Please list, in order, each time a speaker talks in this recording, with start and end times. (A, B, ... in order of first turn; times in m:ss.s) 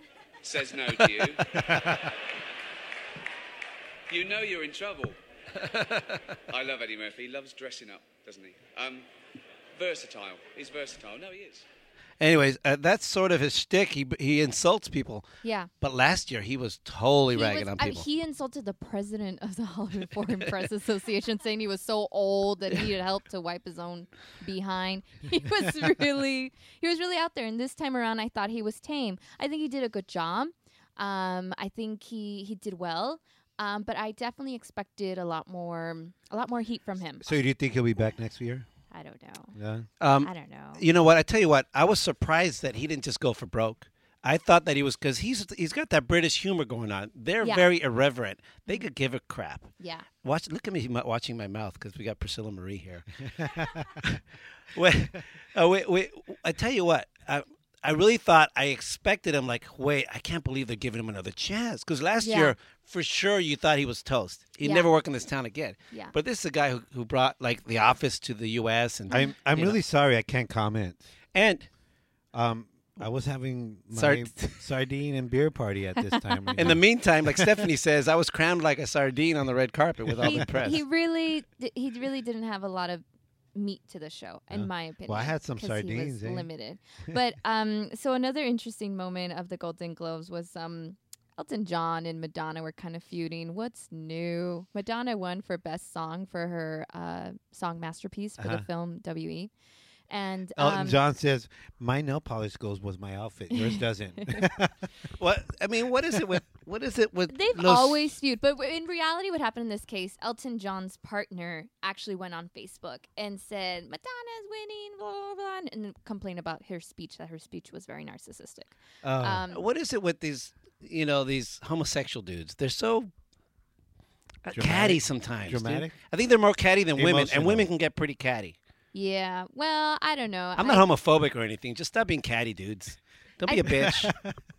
0:00.4-0:01.7 A
0:04.1-0:05.2 A
0:06.5-0:09.1 A
0:09.7-0:11.6 A
0:12.2-0:15.2 B
0:15.4-0:15.7 C
0:15.8-0:18.0 B
0:17.3-0:37.2 C
0:37.2-0:38.6 D
0:38.9-0:39.5 C
0:39.6-0:39.9 D
0:40.0-0:49.7 B
0:40.2-0:40.8 C
0:49.8-0:50.1 C
0:50.2-0:53.4 B
0:54.7-1:09.8 B
1:02.2-1:02.5 C
1:04.6-1:04.9 C
1:09.1-1:11.0 D
1:11.3-1:11.6 B
1:12.3-1:17.7 D
1:13.9-1:14.6 B
1:16.0-1:16.8 C
1:16.6-1:20.8 B
1:20.1-1:20.7 D
1:20.2-1:23.0 C
1:23.5-1:39.5 C
1:24.5-1:26.5 D
1:38.4-1:38.6 D
1:40.1-1:41.0 C
1:40.6-1:44.9 D
1:45.2-1:48.2 B
1:47.3-1:59.6 C
1:59.0-1:59.4 D
1:59.5-2:03.1 B
2:04.4-2:08.5 B
2:04.5-2:05.9 D
2:07.0-2:07.7 D
2:08.9-2:10.8 C
2:10.6-2:14.1 B
2:13.5-2:13.9 C
2:13.8-2:14.4 D